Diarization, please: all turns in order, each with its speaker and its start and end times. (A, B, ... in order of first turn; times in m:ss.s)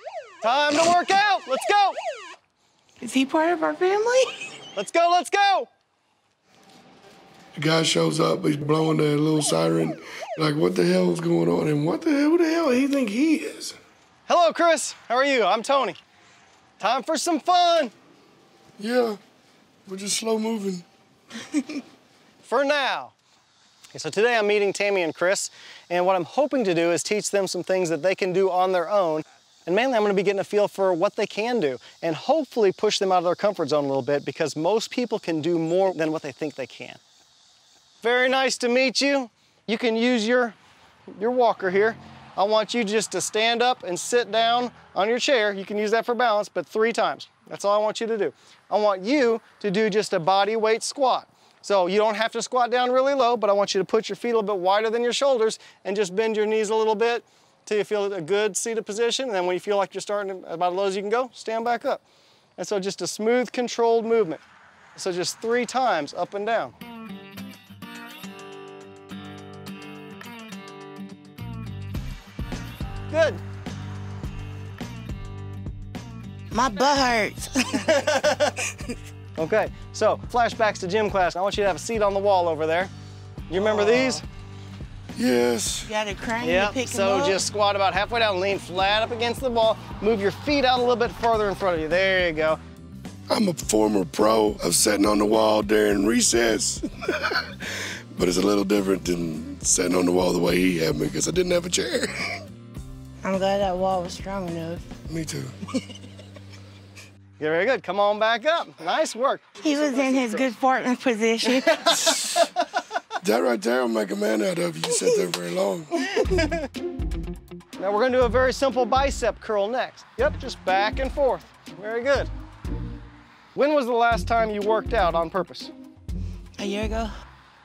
0:00.4-0:02.0 A
0:03.0-0:04.3 B
0:04.7-0:05.7 A
0:07.6-0:13.8 C
0:14.3-0:16.0 A
0:16.8-0:17.9 A
0:18.8-0:19.2 C
0:19.9-0:20.8 C
0:22.4-0:23.1 A
0:23.9-0:37.0 A
0:38.0-0:40.6 A
0:41.1-1:02.0 A
1:02.6-1:04.4 A
1:05.0-1:06.7 A
1:13.1-1:13.4 A
1:16.5-1:17.9 B
1:17.7-1:18.6 A
1:19.4-1:22.9 A
1:23.5-1:24.2 A
1:25.1-1:25.9 C
1:25.9-1:27.4 B
1:26.4-1:32.6 A
1:33.3-1:42.1 C
1:43.2-1:44.8 B
1:45.1-1:45.5 C
1:47.4-1:50.5 A
1:49.6-1:52.5 B
1:52.0-1:52.4 A
1:53.2-1:56.2 C
1:56.1-1:56.7 A
1:57.8-2:02.3 A
2:03.5-2:05.7 A
2:06.6-2:07.1 B